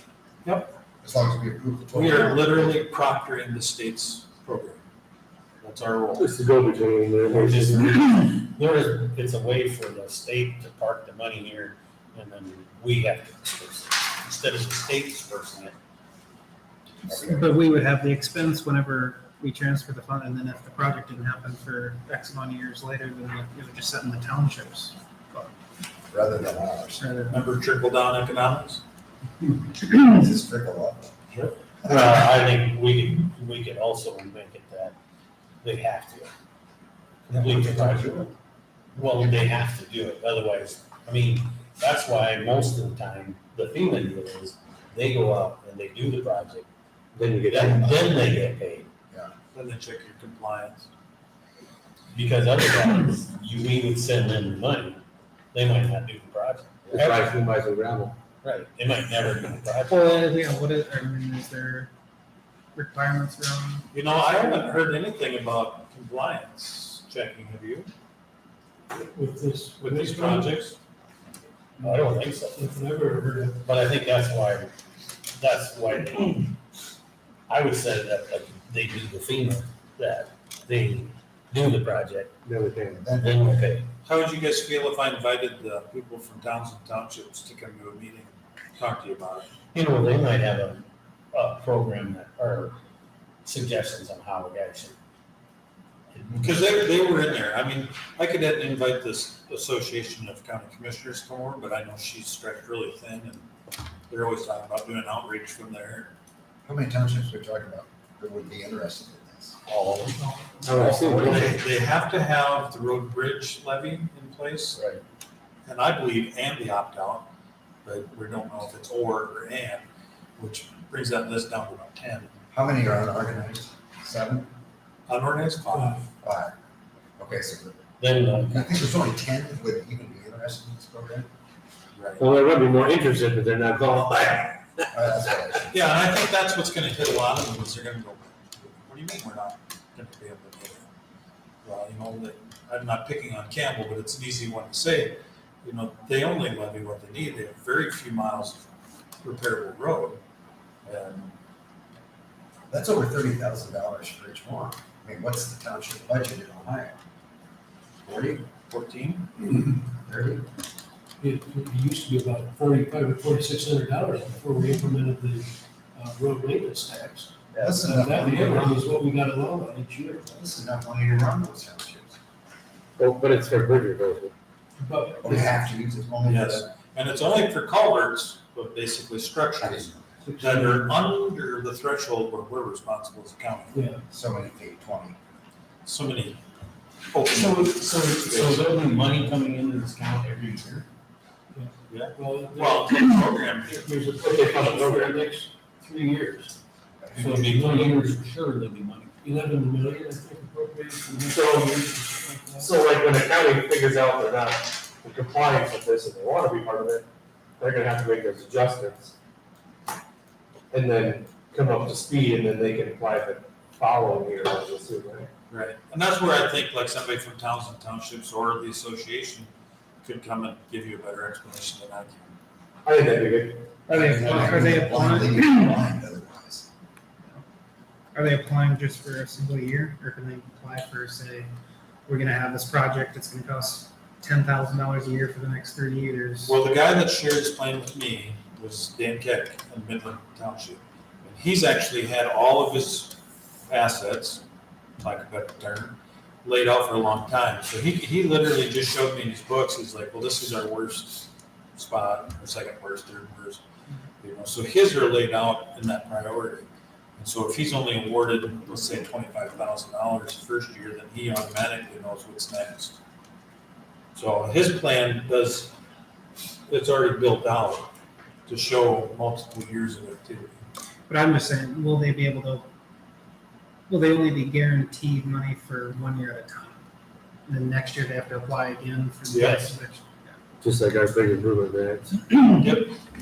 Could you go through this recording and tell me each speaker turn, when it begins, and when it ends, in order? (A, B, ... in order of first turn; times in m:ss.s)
0:00.4-0:00.7 A
0:01.0-0:02.8 B
0:01.9-0:04.8 C
0:05.6-0:06.3 C
0:06.2-0:07.9 D
0:07.2-0:15.8 E
0:17.0-0:17.6 B
0:17.2-0:25.5 F
0:26.1-0:27.0 B
0:27.0-0:27.4 F
0:27.3-0:28.8 C
0:30.1-0:31.2 B
0:31.8-0:35.0 E
0:35.6-0:36.3 E
0:37.3-0:37.7 C
0:37.3-0:38.3 E
0:37.6-0:38.3 B
0:39.0-0:48.9 E
0:39.0-0:39.3 B
0:47.2-0:47.7 D
0:47.5-0:48.2 B
0:49.5-0:50.9 C
0:52.1-0:55.0 E
0:55.5-0:57.3 E
0:56.9-0:57.2 B
0:56.9-0:58.2 D
0:58.4-1:00.0 E
0:59.8-1:01.9 F
1:02.8-1:03.9 F
1:03.9-1:07.9 C
1:08.9-1:10.7 A
1:09.8-1:10.8 C
1:11.8-1:13.7 A
1:11.8-1:12.7 E
1:13.6-1:14.7 E
1:15.2-1:16.6 E
1:17.5-1:22.5 E
1:22.4-1:23.0 D
1:22.9-1:23.6 B
1:23.2-1:23.9 E
1:24.0-1:29.5 C
1:29.7-1:32.8 E
1:33.4-1:35.0 E
1:36.1-1:36.9 E
1:36.4-1:43.5 C
1:44.1-1:46.1 C
1:46.6-1:49.6 B
1:49.7-1:50.2 E
1:50.7-1:51.5 D
1:50.7-1:51.4 E
1:50.8-1:54.8 C
1:54.8-1:55.0 E
1:55.7-1:57.3 C
1:57.8-1:59.9 C
2:00.4-2:02.3 C
2:02.5-2:04.5 B
2:05.1-2:06.0 C
2:05.7-2:06.0 A
2:06.2-2:06.6 B
2:07.2-2:07.9 B
2:08.0-2:08.9 E
2:08.5-2:11.3 B
2:12.0-2:12.3 C
2:12.2-2:14.2 D
2:13.3-2:14.6 E
2:14.9-2:15.7 B
2:15.7-2:20.9 C
2:21.6-2:28.6 C
2:29.2-2:30.2 C
2:30.8-2:31.4 C
2:32.7-2:37.0 B
2:38.0-2:38.5 B
2:38.7-2:39.3 C
2:39.4-2:40.4 B
2:41.2-2:50.3 A
2:47.5-2:47.8 E
2:47.6-2:48.8 B
2:50.3-2:52.2 B
2:53.0-2:54.3 D
2:54.8-2:55.6 A
2:55.2-2:56.7 B
2:56.2-3:03.8 C
2:59.6-3:00.1 B
3:00.2-3:01.0 A
3:03.7-3:04.0 A
3:04.1-3:05.2 B
3:05.8-3:06.4 C
3:07.1-3:07.8 C
3:07.3-3:10.9 E
3:11.5-3:16.5 A
3:11.9-3:13.8 C
3:14.4-3:15.3 D
3:17.0-3:17.3 B
3:17.2-3:19.2 E
3:17.2-3:17.9 A
3:19.2-3:22.8 A
3:21.3-3:21.7 D
3:22.6-3:27.0 D
3:27.6-3:29.1 D
3:30.7-3:35.3 D
3:35.5-3:39.5 C
3:40.0-3:42.4 C
3:42.9-3:43.7 D
3:43.9-3:45.8 F
3:43.9-3:46.7 B
3:48.1-3:51.5 F
3:52.1-3:56.6 F
3:56.5-4:04.4 C
4:05.0-4:13.6 C
4:14.2-4:16.7 C
4:17.2-4:23.0 C
4:24.2-4:25.7 C
4:26.7-4:27.9 C
4:28.5-4:30.5 C
4:31.1-4:32.7 F
4:33.9-4:36.8 F
4:37.5-4:40.4 F
4:39.3-4:39.7 C
4:40.6-4:42.3 D
4:42.5-4:43.0 C